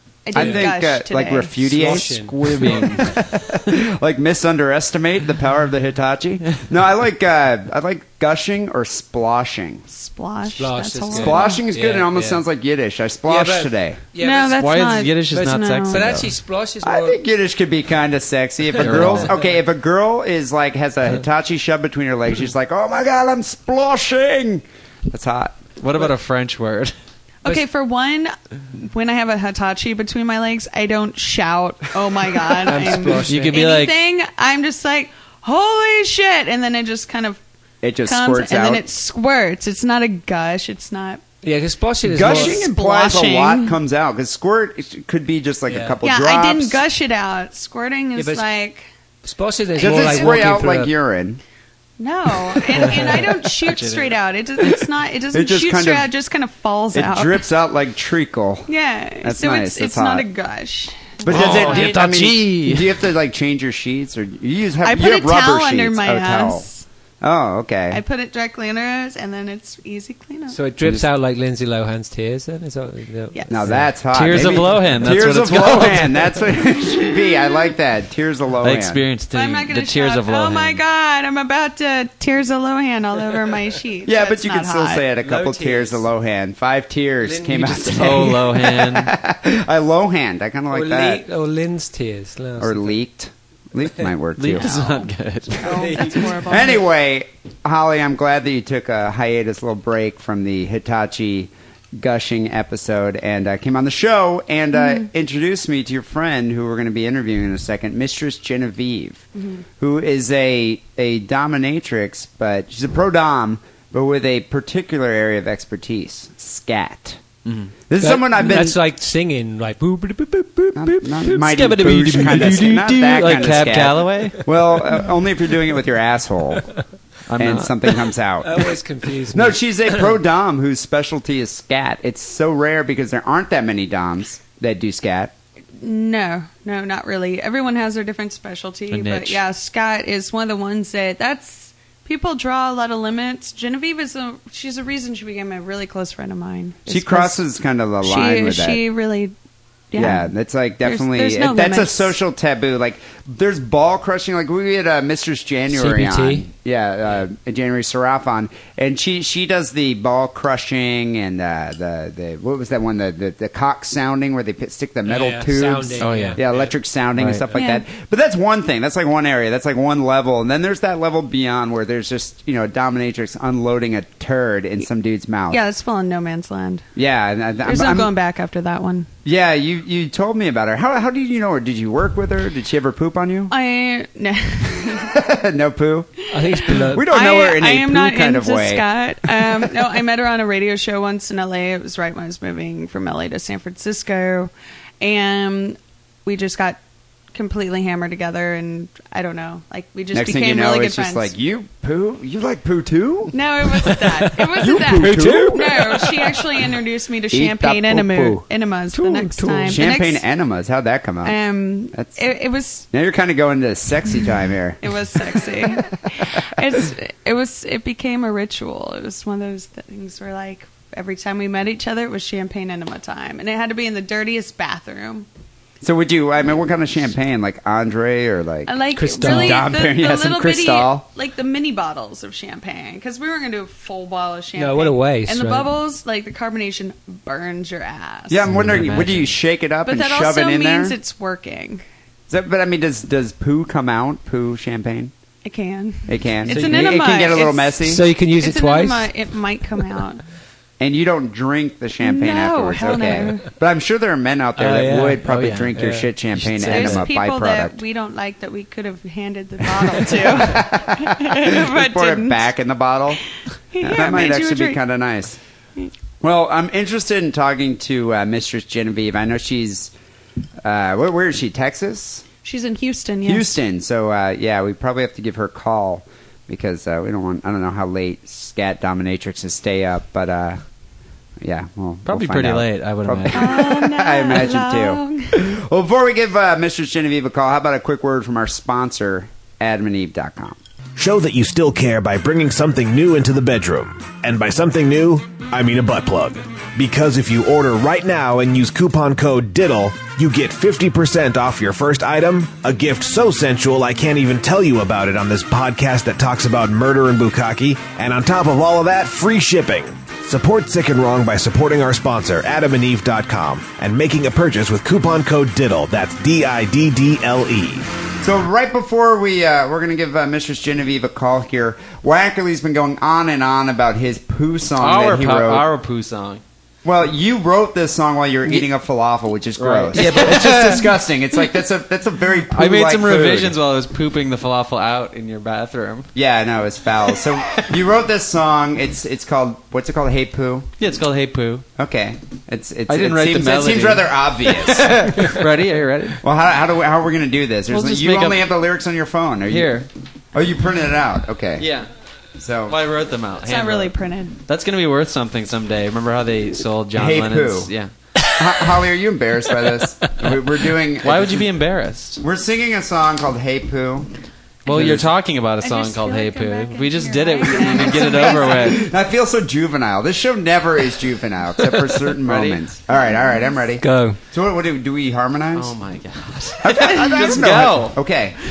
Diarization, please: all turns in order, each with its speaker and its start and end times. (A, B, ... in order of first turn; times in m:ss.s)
0:00.2-0:01.8 A
0:00.3-0:00.7 B
0:00.3-0:09.8 C
0:01.6-0:03.0 B
0:09.9-0:11.6 A
0:10.6-0:12.4 B
0:11.1-0:14.0 C
0:13.2-0:14.5 B
0:14.2-0:16.1 A
0:14.5-0:16.3 D
0:15.3-0:17.2 B
0:16.8-0:25.6 C
0:18.8-0:19.3 D
0:18.8-0:19.5 B
0:25.8-0:26.9 D
0:27.4-0:37.4 A
0:32.6-0:33.6 B
0:33.3-0:33.9 D
0:37.8-0:38.8 C
0:38.0-0:41.2 A
0:41.4-0:42.6 B
0:42.0-0:46.8 C
0:42.2-0:43.8 A
0:45.7-0:45.9 B
0:46.0-0:48.8 A
0:48.2-0:48.5 B
0:49.2-0:50.9 B
0:49.8-0:51.4 C
0:52.0-0:57.4 A
0:52.7-0:53.3 B
0:53.6-0:54.2 D
0:55.3-0:56.1 C
0:56.9-0:58.7 C
0:58.7-1:01.2 A
0:59.2-1:00.3 C
1:01.2-1:06.6 C
1:01.3-1:02.1 B
1:01.3-1:02.9 D
1:04.8-1:06.8 A
1:07.2-1:08.0 C
1:07.9-1:10.6 A
1:10.5-1:14.8 B
1:10.8-1:11.1 C
1:13.3-1:13.8 A
1:13.5-1:19.0 C
1:14.1-1:16.3 D
1:18.6-1:20.8 D
1:19.3-1:25.1 A
1:24.0-1:31.3 C
1:25.2-1:26.1 B
1:27.2-1:28.3 B
1:27.8-1:29.1 D
1:30.7-1:32.9 B
1:32.6-1:34.9 C
1:34.4-1:35.7 D
1:34.6-1:35.0 A
1:35.6-1:36.8 A
1:35.6-1:36.5 B
1:36.4-1:57.2 C
1:44.8-1:45.1 A
1:49.4-1:49.6 A
1:57.4-1:57.7 D
1:57.9-1:58.8 C
1:58.0-2:03.7 B
2:00.8-2:06.7 C
2:02.1-2:04.4 D
2:07.3-2:07.7 D
2:07.4-2:15.3 C
2:08.4-2:10.1 B
2:15.8-2:27.4 A
2:18.9-2:19.4 D
2:26.8-2:28.8 C
2:28.0-2:29.3 A
2:29.9-2:32.1 A
2:30.0-2:55.6 C
2:35.7-2:36.4 B
2:45.1-2:46.7 B
2:46.0-2:46.6 D
2:47.2-2:47.4 D
2:47.6-2:47.8 A
2:55.5-2:56.9 A
2:57.0-2:58.1 C
2:57.6-2:59.1 A
2:59.2-3:03.5 C
3:03.5-3:05.1 A
3:05.0-3:06.1 C
3:06.3-3:07.1 B
3:06.4-3:16.8 A
3:06.7-3:09.6 C
3:17.3-3:21.3 A
3:20.1-3:23.3 C
3:23.3-3:30.2 A
3:24.5-3:26.0 C
3:24.6-3:26.2 B
3:27.3-3:28.4 C
3:28.9-3:29.9 B
3:29.7-3:31.4 C
3:31.2-3:32.9 A
3:31.9-3:32.2 C
3:32.9-3:34.8 C
3:34.8-3:45.2 A
3:45.8-3:51.0 C
3:48.7-3:58.4 A
3:48.9-3:49.7 B
3:54.6-3:55.7 B
3:58.3-4:01.0 C
3:58.5-3:59.4 D
3:59.8-4:01.8 A
4:02.3-4:05.1 C
4:05.4-4:07.8 A
4:06.1-4:08.1 C
4:06.4-4:09.1 B
4:08.4-4:10.2 A
4:10.8-4:17.8 C
4:12.0-4:13.5 A
4:14.6-4:15.2 B
4:15.2-4:17.1 D
4:15.7-4:16.1 B
4:16.7-4:22.5 A
4:19.8-4:23.2 C
4:23.7-4:24.8 A
4:23.8-4:25.4 C
4:26.2-4:29.9 C
4:30.6-4:32.2 C
4:32.4-4:33.6 A
4:33.2-4:40.6 C
4:41.4-4:50.6 C
4:42.1-4:43.5 D
4:43.3-4:45.3 A
4:51.0-5:18.0 E
5:18.2-5:25.7 C
5:24.8-5:26.4 D
5:26.8-5:33.6 C
5:29.6-5:30.9 D
5:30.3-5:30.6 B
5:32.5-5:36.1 D
5:36.1-5:40.7 C
5:40.8-5:41.6 D
5:41.8-5:45.4 C
5:42.9-5:46.2 D
5:46.2-5:49.8 C
5:47.7-5:48.5 D
5:49.5-5:49.9 D
5:50.3-5:51.7 C
5:51.6-5:51.9 D
5:52.4-5:52.8 C
5:52.7-5:53.9 D
5:53.4-5:54.4 A
5:54.5-5:57.9 D
5:56.9-5:57.7 C
5:58.3-6:01.5 C
6:01.0-6:02.2 D
6:02.2-6:04.1 C
6:04.7-6:08.8 D
6:04.7-6:05.1 C
6:05.6-6:08.8 A
6:07.9-6:15.7 C
6:11.9-6:12.6 D
6:13.8-6:14.2 B
6:15.6-6:18.0 D
6:16.6-6:18.4 C